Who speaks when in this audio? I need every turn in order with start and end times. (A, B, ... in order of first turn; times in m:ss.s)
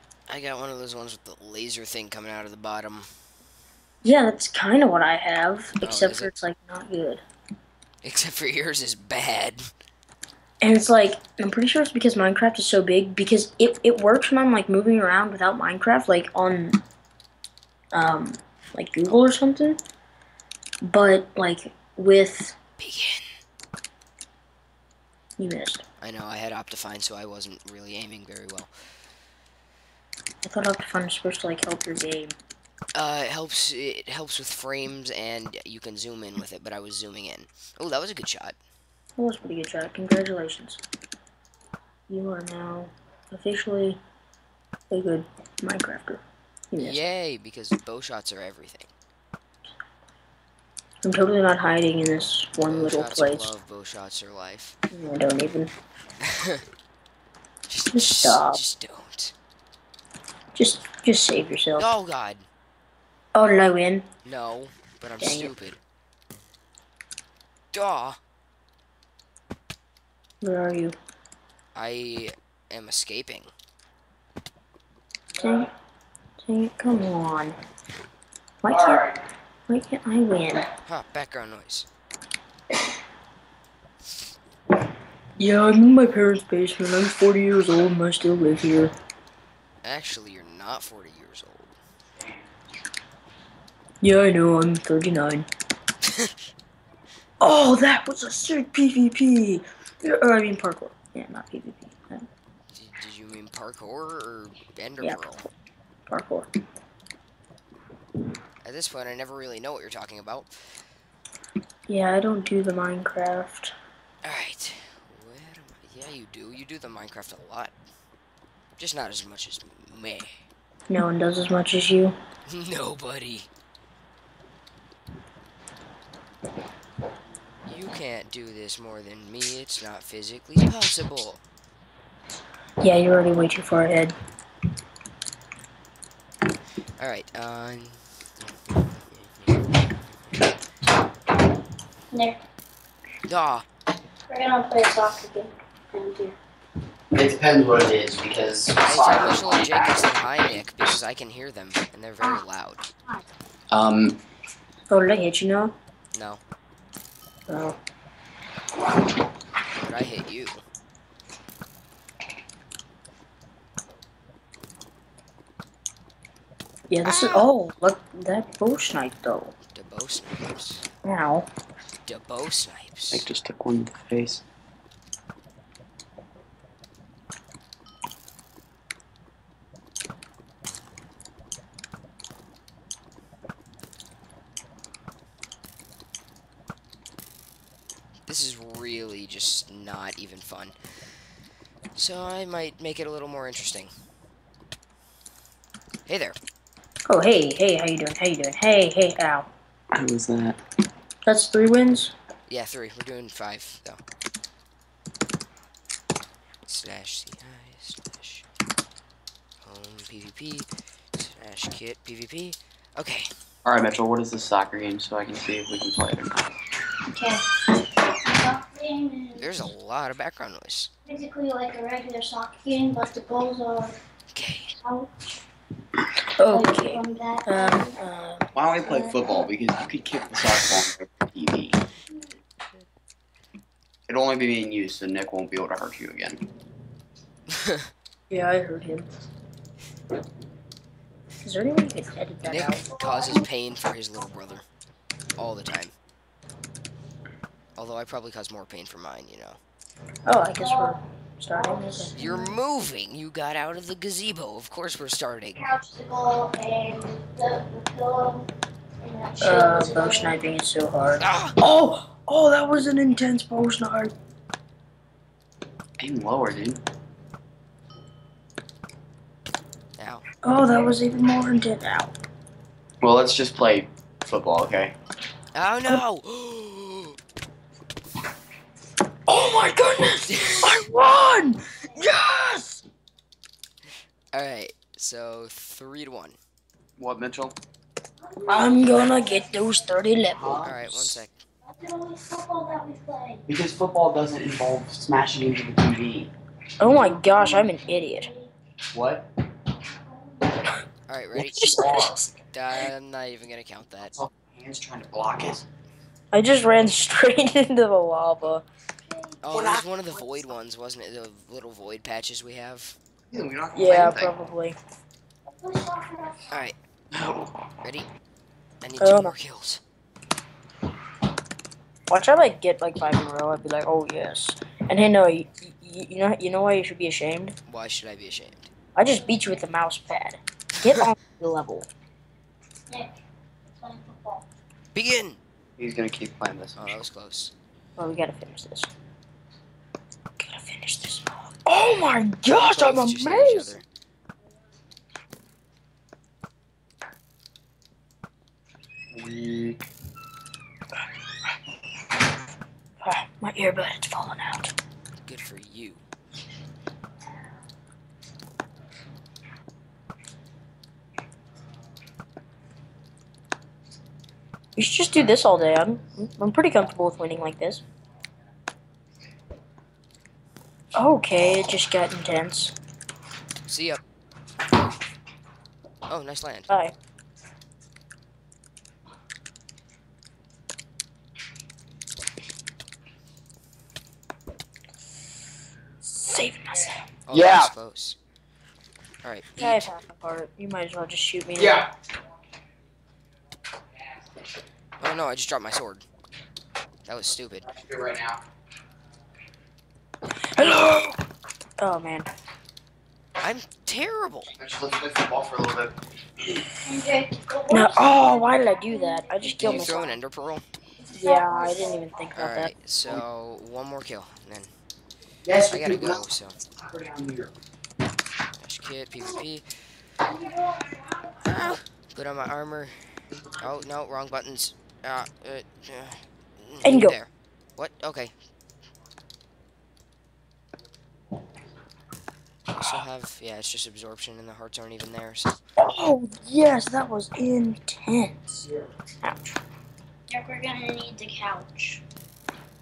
0:00.3-0:03.1 A
0:04.0-0:07.2 B
0:05.8-0:06.3 A
0:08.0-0:09.6 A
0:10.6-0:16.8 B
0:17.9-0:19.8 B
0:20.8-0:22.6 B
0:22.8-0:23.2 A
0:25.4-0:25.8 B
0:26.0-0:28.7 A
0:30.4-0:32.4 B
0:32.9-0:38.6 A
0:39.2-0:40.8 B
0:42.1-0:44.0 B
0:44.9-0:47.0 B
0:46.8-0:48.9 A
0:51.0-0:53.5 B
0:52.6-0:54.8 A
0:54.9-0:55.7 B
0:56.3-0:56.6 A
0:57.7-0:59.3 A
0:57.9-0:58.6 B
1:00.5-1:01.9 B
1:01.8-1:02.4 A
1:03.3-1:04.1 B
1:04.2-1:05.8 A
1:05.2-1:05.5 B
1:07.7-1:08.2 A
1:10.4-1:11.0 B
1:11.7-1:13.5 A
1:15.3-1:15.7 B
1:16.4-1:17.5 B
1:18.6-1:19.1 B
1:19.7-1:20.6 B
1:20.8-1:21.9 A
1:25.4-1:28.9 B
1:29.8-1:31.8 A
1:34.0-1:35.5 B
1:37.4-1:42.2 B
1:42.7-1:45.5 A
1:46.1-1:46.5 B
1:48.6-1:50.5 A
1:51.9-1:53.7 B
1:54.2-1:57.7 A
1:58.8-2:00.3 A
2:00.9-2:02.1 B
2:02.5-2:03.5 A
2:07.6-2:11.4 A
2:12.8-2:14.1 B
2:17.0-2:19.6 A
2:22.1-2:22.4 C
2:23.2-2:23.6 A
2:24.3-2:26.3 C
2:27.1-2:30.1 D
2:28.8-2:32.9 A
2:33.7-2:34.2 D
2:34.9-2:35.7 B
2:36.1-2:36.4 A
2:37.5-2:37.8 B
2:39.7-2:40.6 A
2:46.9-2:49.5 B
2:47.0-2:47.4 A
2:49.7-2:50.8 A
2:51.0-2:51.5 B
2:52.0-2:53.2 A
2:53.1-2:54.4 D
3:08.3-3:10.8 A
3:11.9-3:13.9 A
3:16.0-3:16.4 A
3:17.1-3:19.5 B
3:19.9-3:20.6 D
3:21.2-3:22.1 B
3:22.5-3:24.0 A
3:26.6-3:28.4 A
3:29.6-3:33.3 A
3:33.6-3:36.5 D
3:37.0-3:39.6 C
3:39.4-3:40.9 A
3:41.1-3:44.0 C
3:44.3-3:44.7 A
3:44.8-3:45.2 C
3:46.3-3:48.5 B
3:46.4-3:47.9 C
3:48.5-3:51.8 D
3:48.8-3:49.4 C
3:54.1-3:56.4 D
3:58.3-3:59.1 B
4:01.4-4:02.9 B
4:02.4-4:04.6 A
4:03.0-4:03.4 C
4:05.4-4:05.9 A
4:07.8-4:09.6 A
4:10.2-4:12.4 B
4:10.5-4:11.0 C
4:11.5-4:12.4 C
4:12.2-4:15.6 A
4:15.6-4:18.5 C
4:19.0-4:20.4 C
4:19.4-4:24.1 B
4:21.2-4:21.6 A
4:26.0-4:26.8 D
4:30.0-4:30.2 A
4:30.4-4:32.1 B
4:33.0-4:34.9 D
4:35.5-4:37.2 A
4:39.3-4:42.8 B
4:40.3-4:40.8 A
4:44.3-4:46.4 A
4:47.0-4:47.6 D
4:48.4-4:50.6 B
4:49.0-4:49.3 C
4:50.4-4:51.2 D
4:50.6-4:51.4 A
4:51.7-4:53.4 C
4:53.5-4:56.3 D
4:56.8-4:58.3 B
4:57.2-4:58.5 C
4:58.9-4:59.2 D
5:00.1-5:00.5 C
5:01.1-5:01.9 A
5:01.5-5:02.1 D
5:01.5-5:02.3 B
5:02.5-5:04.2 A
5:04.0-5:05.6 D
5:06.3-5:08.6 B
5:09.4-5:13.0 A
5:09.5-5:09.8 D
5:13.3-5:14.3 D
5:13.7-5:14.8 B
5:15.6-5:16.5 C
5:16.5-5:16.8 A
5:17.1-5:17.5 D
5:17.8-5:18.1 A
5:18.8-5:19.8 A
5:19.0-5:19.3 B
5:22.1-5:27.5 B
5:27.6-5:28.7 A
5:29.0-5:31.9 B
5:33.7-5:34.4 C
5:34.9-5:35.4 A
5:35.8-5:37.0 D
5:36.8-5:37.5 A
5:38.0-5:38.9 B
5:40.4-5:43.8 B
5:42.7-5:43.8 A
5:49.1-5:49.8 D
5:53.0-5:54.7 B
5:55.2-5:56.0 A
6:04.8-6:07.8 B
6:10.9-6:12.8 B
6:13.7-6:14.0 A
6:16.1-6:16.7 A
6:26.0-6:27.0 B
6:27.3-6:28.2 A
6:27.3-6:27.7 D
6:29.2-6:29.8 A
6:29.6-6:31.9 B
6:31.6-6:31.8 D
6:35.0-6:36.0 A
6:37.0-6:37.6 A
6:37.6-6:38.4 D
6:40.5-6:41.2 B
6:41.8-6:42.3 B
6:43.4-6:44.5 A
6:44.6-6:46.0 D
6:46.8-6:50.1 C
6:47.7-6:50.1 B
6:49.6-6:50.6 A
6:51.1-6:52.7 B
6:51.2-6:52.0 C
6:52.4-6:54.7 A
6:55.4-6:56.2 D
6:55.7-6:56.6 A
6:56.8-6:57.5 D
6:58.6-6:59.7 A
7:00.5-7:01.2 C
7:01.4-7:02.9 A
7:03.6-7:08.3 A
7:06.8-7:07.1 B
7:12.7-7:15.6 A
7:15.8-7:18.7 B
7:19.2-7:19.6 B
7:20.3-7:22.0 C